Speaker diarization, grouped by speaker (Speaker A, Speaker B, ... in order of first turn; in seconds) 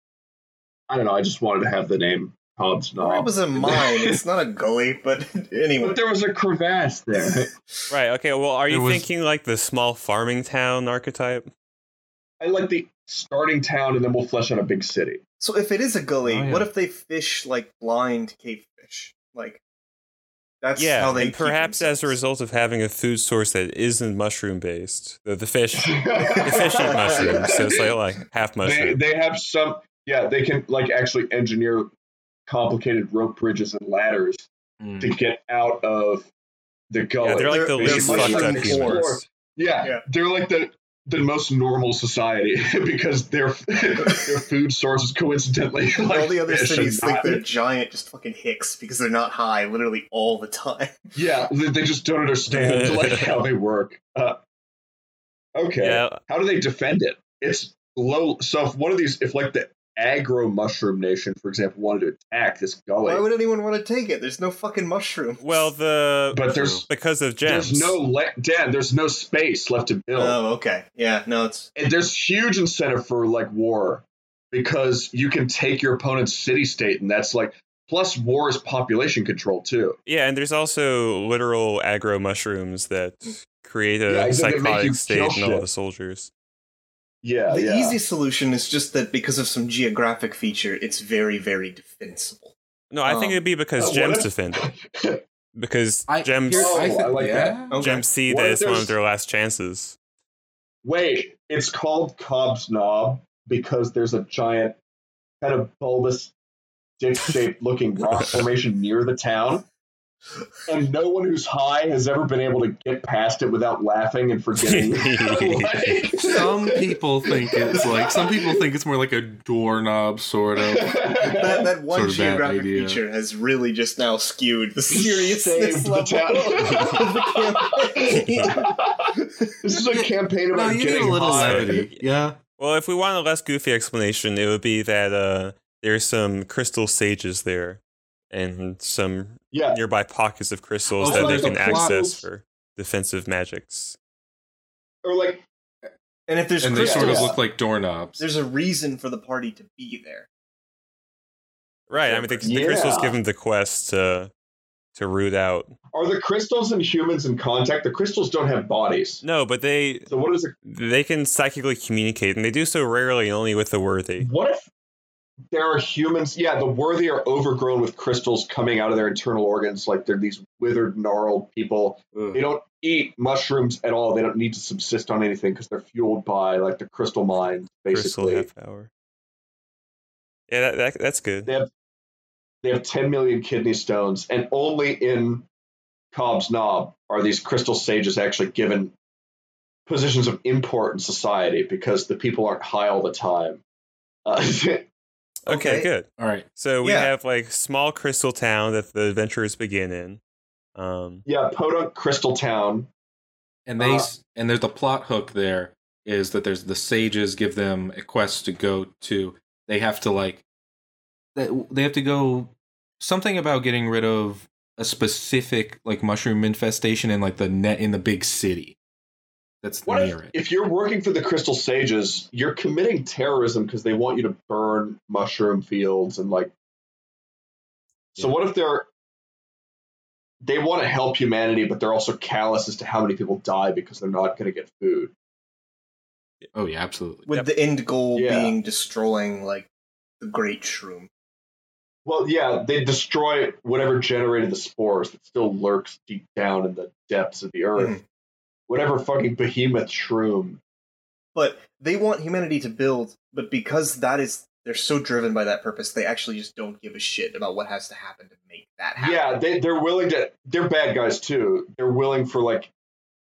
Speaker A: 0.9-4.1, 5.8-7.5, 12.4-15.2, 25.8-27.8, 28.6-31.9, 32.5-34.5, 35.0-36.3, 36.9-47.5, 51.1-54.4, 55.5-63.3, 66.3-66.9, 67.5-70.4, 71.8-80.0, 84.1-85.7, 87.2-88.0, 93.1-95.2, 96.5-97.6, 98.3-99.0, 100.8-104.8, 105.4-106.3, 107.0-109.7, 110.7-117.0, 117.7-118.2, 120.7-121.7, 124.9-131.9, 139.5-139.8, 141.0-142.2, 145.0-145.5, 146.8-147.4, 152.4-153.2, 155.9-159.2, 160.1-160.5, 164.2-164.7, 165.5-178.5, 182.6-185.5, 186.1-188.9, 189.9-193.6, 194.2-194.9, 201.3-202.9, 203.8-204.1, 219.9-226.5, 228.2-228.9, 230.4-235.1, 238.1-238.6, 242.1-248.0, 248.7-250.6, 259.0-262.7
Speaker B: 3.0-6.0, 15.4-19.6, 20.6-22.2, 26.4-27.5, 37.5-39.1, 46.0-51.0, 63.0-65.7, 70.2-71.7, 87.5-92.5, 97.7-98.1, 117.7-118.2, 121.2-129.5, 146.3-147.4, 148.2-150.3, 152.0-152.6, 195.5-195.9, 196.8-197.1, 237.3-239.7, 240.2-241.1, 247.8-248.0, 251.3-259.3
Speaker C: 7.9-11.5, 20.8-29.0, 37.2-39.2, 52.5-53.3, 55.8-56.2, 65.4-68.0, 80.1-86.3, 92.9-94.7, 95.6-96.9, 97.8-100.0, 108.2-108.5, 114.6-116.0, 131.2-137.8, 138.3-144.0, 151.9-154.3, 154.9-155.7, 159.2-160.1, 160.7-164.3, 177.8-178.9, 180.5-181.5, 195.4-200.2, 200.8-201.2
Speaker D: 8.7-9.1, 16.3-16.7, 34.8-35.1, 66.6-66.8, 96.1-97.8, 116.2-123.0, 129.8-132.4, 141.0-142.1, 146.6-148.2, 172.1-172.4, 196.2-196.5, 203.7-210.4, 211.3-218.8, 219.6-220.3, 236.6-237.2